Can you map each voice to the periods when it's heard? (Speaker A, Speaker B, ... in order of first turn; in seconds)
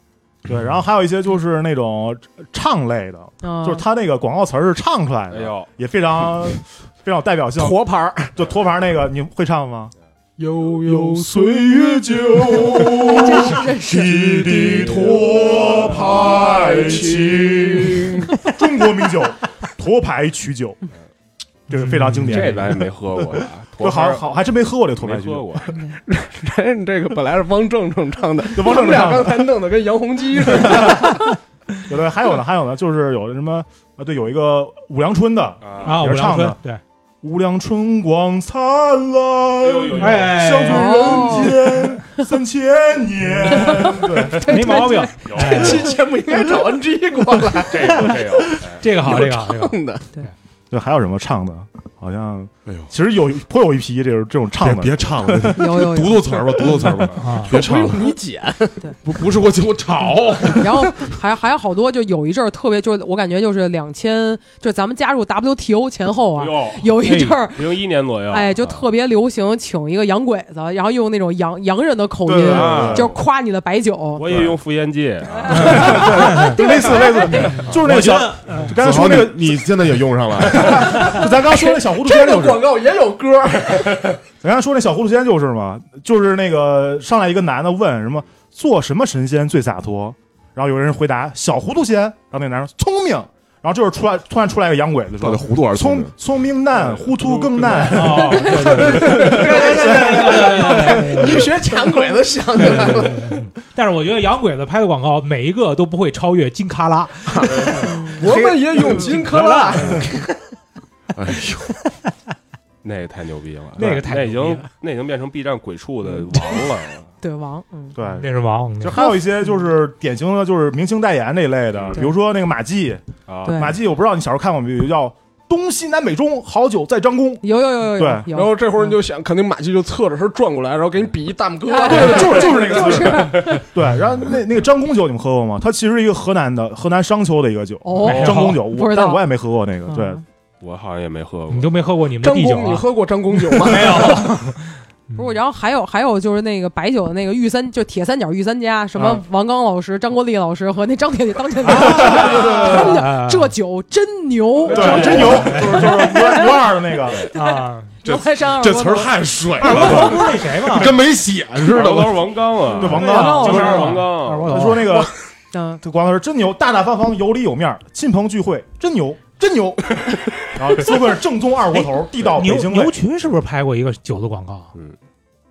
Speaker A: 0.5-9.9, 10.8-20.8, 21.7-25.7, 28.5-29.6, 30.4-31.2, 31.9-36.6, 37.2-44.7, 50.7-55.8, 72.2-73.1, 75.5-79.8, 80.3-82.7, 84.4-101.2, 117.9-118.3, 118.8-127.4, 127.9-128.3, 131.8-140.2, 148.9-149.2, 151.7-152.9, 154.7-157.3, 162.8-165.1, 165.8-172.9
Speaker B: 3.4-3.8, 13.1-14.2, 40.6-41.8, 43.5-45.2, 55.5-56.6, 60.5-67.6, 68.3-74.2, 75.5-77.6, 98.4-98.7, 107.8-108.2, 117.2-118.0, 123.4-123.7, 127.4-128.9, 131.7-133.6, 137.8-139.2, 139.9-140.2, 145.2-156.7, 157.3-159.2, 162.9-164.0, 165.5-165.8
Speaker C: 5.3-5.7, 22.3-24.3, 24.9-25.7, 35.6-35.9, 39.6-40.6, 45.2-45.6, 47.7-48.8, 66.3-66.9, 67.5-68.8, 72.4-73.2, 74.2-76.0, 97.0-97.9, 112.8-117.1, 123.3-123.6, 140.6-141.9, 154.7-155.4, 161.6-164.5
Speaker D: 7.6-8.3, 10.4-13.5, 14.0-18.3, 26.0-31.3, 45.4-48.2, 49.0-50.0, 57.5-58.8, 81.4-84.1, 98.6-103.4, 107.3-110.0, 128.3-133.1, 142.2-144.3
Speaker E: 21.7-22.6, 35.8-36.8, 39.9-41.3, 44.4-45.9, 48.7-49.8, 57.1-57.5, 67.0-67.4, 75.6-76.6, 77.7-78.8, 97.9-101.4, 102.5-110.4, 113.8-114.7, 118.2-119.0, 138.0-138.6, 141.5-145.3, 151.6-153.5, 154.7-155.9, 157.3-157.9, 159.6-161.0, 162.8-164.9, 171.8-174.7
Speaker F: 54.6-58.1, 59.0-61.0, 78.7-81.0, 95.2-96.1, 111.2-111.7, 158.0-162.4